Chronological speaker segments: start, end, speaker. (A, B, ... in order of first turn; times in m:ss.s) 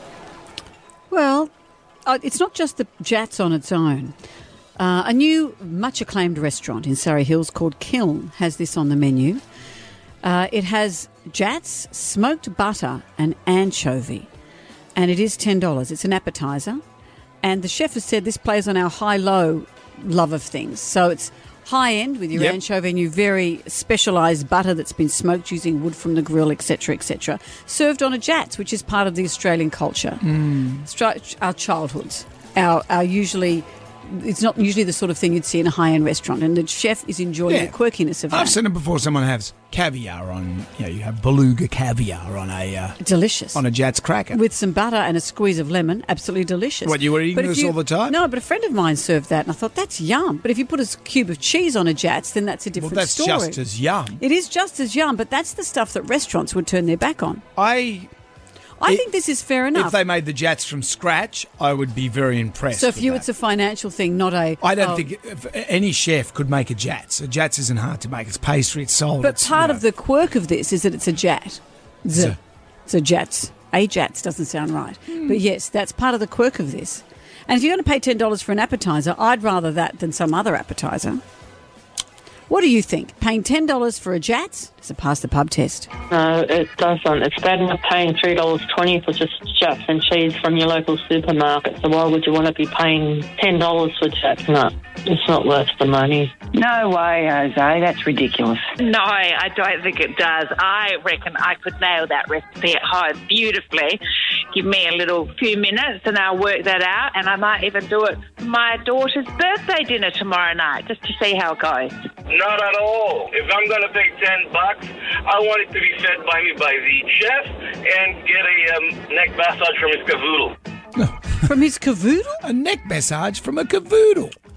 0:01.1-0:01.5 A
0:02.0-0:04.1 A
0:04.8-0:09.4 A
0:10.2-0:14.3 A
0:15.0-0:16.8 A
0:17.4-0:38.6 A
0:30.2-0:30.8 B
0:37.5-0:37.8 B
0:38.3-0:43.0 B
0:43.0-0:43.6 A
0:43.5-0:44.4 B
0:44.3-0:53.6 A
0:46.8-0:48.2 B
0:52.8-0:54.2 B
0:54.2-0:57.4 A
0:57.6-0:58.1 B
0:58.8-1:00.0 A
0:59.7-1:03.2 B
1:02.7-1:05.0 A
1:04.6-1:09.8 B
1:09.2-1:21.2 A
1:22.5-1:25.9 A
1:26.1-1:36.3 C
1:36.5-1:38.7 D
1:38.8-1:44.0 E
1:44.5-1:51.9 E
1:52.3-2:00.6 F
2:01.4-2:02.4 A
2:02.4-2:04.3 B